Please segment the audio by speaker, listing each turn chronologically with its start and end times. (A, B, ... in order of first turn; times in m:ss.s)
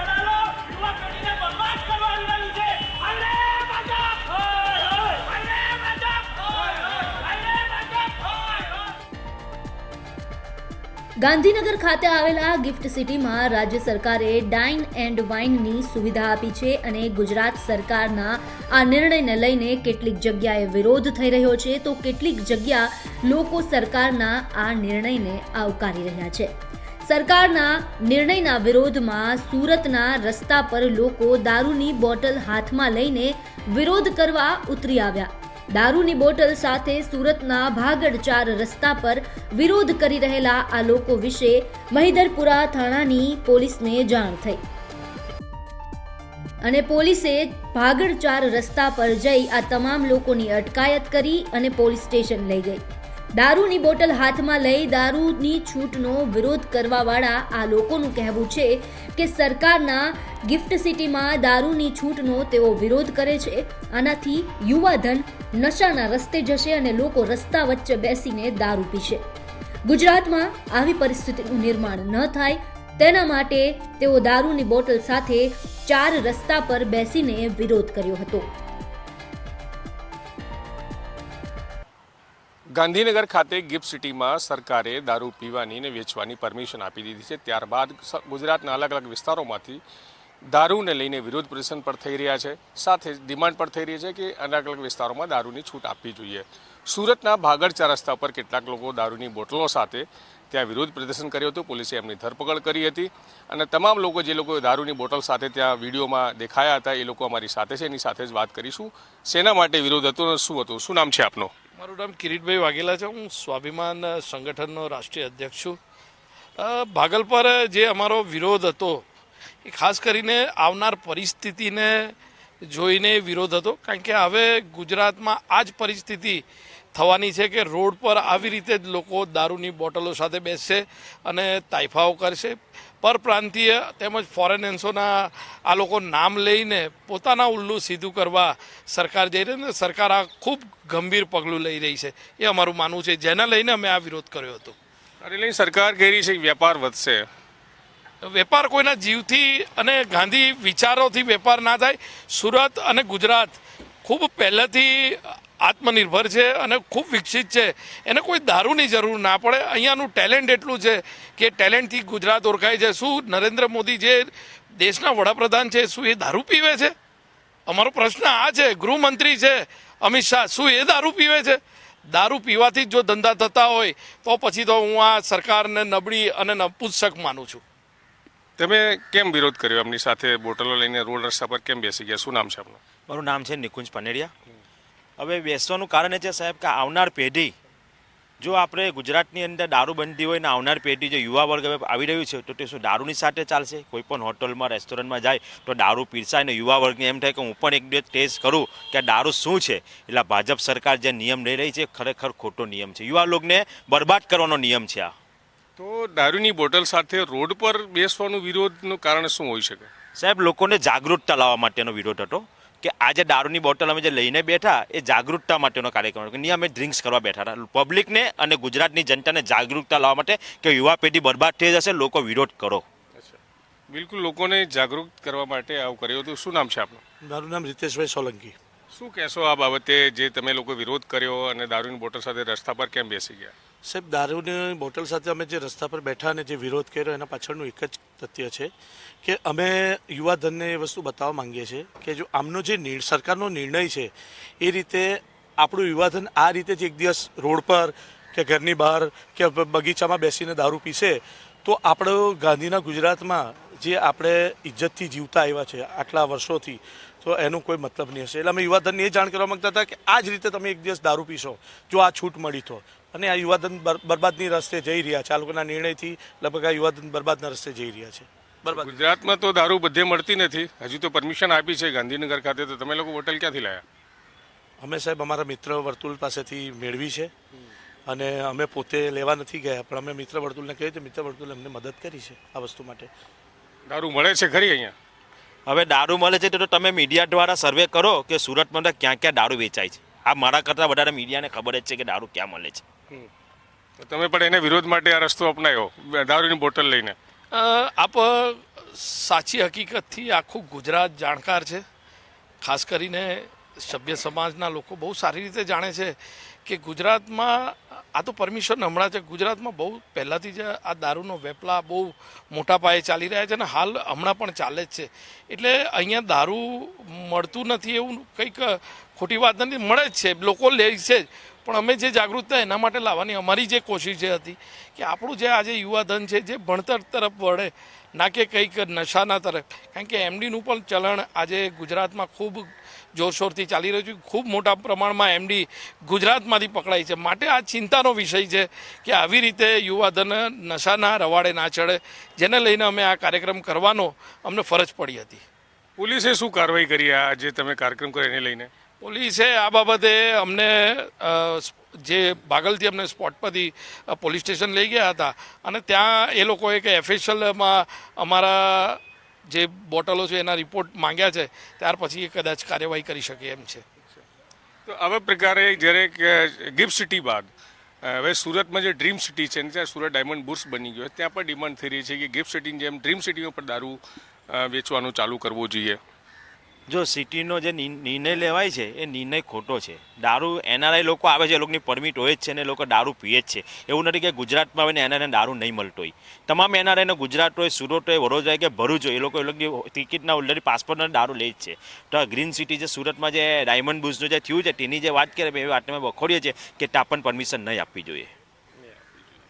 0:11.2-0:26.5 A
0:27.0-0:44.6 A
0:46.6-0:52.8 A
0:53.4-1:09.2 A
1:09.9-1:18.5 A
1:22.7-1:29.8 B
1:30.4-1:51.5 B
1:51.8-1:55.8 C
1:56.6-1:59.0 C
1:59.6-2:24.8 C
2:25.2-2:27.2 B
2:28.2-2:46.9 C
2:47.7-2:57.6 C
2:58.6-3:02.8 B
3:03.1-3:04.3 D
3:05.2-3:07.5 D
3:08.4-3:25.1 D
3:25.8-3:29.9 B
3:30.2-3:42.8 D
3:43.2-3:47.0 B
3:47.3-3:48.5 E
3:48.9-3:53.5 B
3:53.8-3:58.7 E
3:59.2-4:29.0 E
4:28.7-4:33.8 B
4:34.8-4:37.3 E
4:38.1-4:43.1 E
4:43.9-4:44.9 B
4:45.7-4:52.8 D
4:54.0-4:57.2 B
4:57.5-5:01.8 C
5:02.6-5:45.4 C
5:46.0-5:48.7 B
5:49.0-6:03.8 C
6:04.8-6:07.5 B
6:08.0-6:16.0 B
6:16.9-6:38.3 D